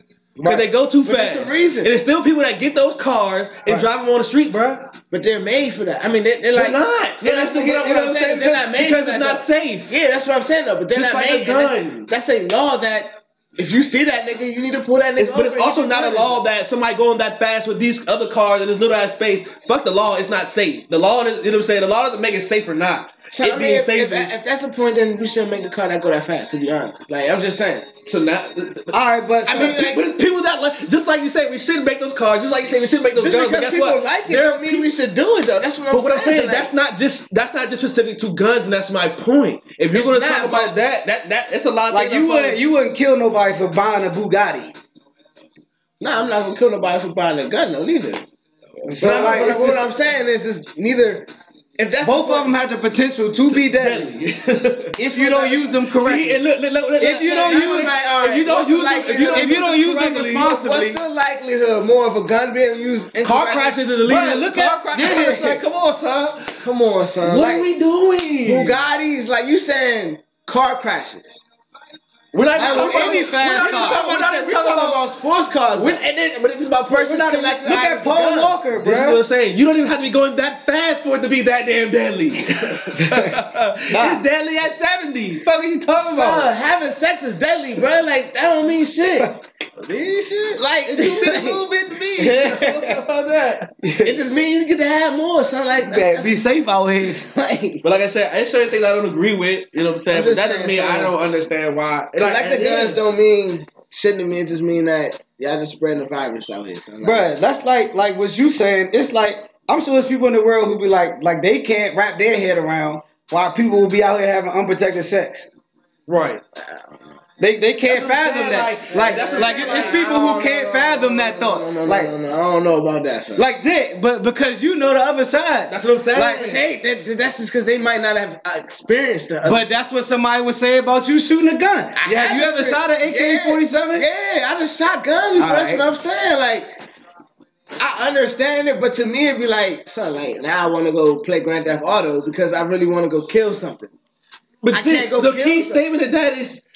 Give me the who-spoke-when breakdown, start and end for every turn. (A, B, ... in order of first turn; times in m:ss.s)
0:00.4-0:04.9 A
0:00.5-0:02.0 B
0:05.1-0:16.4 B
0:06.6-0:10.0 A
0:10.9-0:12.1 A
0:15.2-0:24.3 A
0:23.3-0:27.9 B
0:28.1-0:28.9 A
0:28.9-0:29.8 C
0:29.5-0:30.1 B
0:29.5-0:34.9 A
0:33.2-0:36.7 B
0:35.9-0:42.6 A
0:39.9-0:40.8 B
0:41.9-0:44.8 C
0:46.0-0:48.3 B
0:48.8-0:49.9 C
0:48.9-0:52.5 B
0:52.0-0:54.2 C
0:53.5-0:55.0 A
0:55.0-0:56.4 C
0:55.1-0:55.7 B
0:55.9-1:00.5 A
0:57.0-0:57.9 C
0:57.3-0:59.7 B
0:59.3-1:01.0 C
1:00.3-1:03.8 B
1:03.2-1:06.6 A
1:04.0-1:05.6 C
1:06.6-1:07.7 B
1:07.2-1:08.8 A
1:08.4-1:11.4 B
1:12.3-1:15.1 A
1:12.6-1:16.1 B
1:12.6-1:14.0 C
1:15.7-1:17.4 A
1:16.9-1:18.6 B
1:17.0-1:19.2 C
1:18.8-1:26.5 A
1:22.9-1:23.4 C
1:23.9-1:24.2 C
1:26.1-1:32.8 B
1:31.0-1:33.7 A
1:31.2-1:31.6 C
1:32.2-1:33.0 C
1:33.8-1:34.2 C
1:34.0-1:36.4 B
1:35.9-1:37.2 C
1:37.0-1:37.8 B
1:37.8-1:43.0 A
1:40.1-1:41.1 B
1:42.2-1:47.3 B
1:47.0-1:55.5 C
1:56.1-1:56.4 A
1:57.4-2:02.1 C
1:57.8-2:00.0 A
1:58.9-2:03.5 B
2:03.4-2:06.5 C
2:05.7-2:06.6 A
2:06.2-2:09.7 B
2:09.4-2:14.0 C
2:12.0-2:16.7 B
2:15.4-2:15.9 C
2:17.8-2:23.9 B
2:24.6-2:26.6 A
2:24.7-2:25.8 B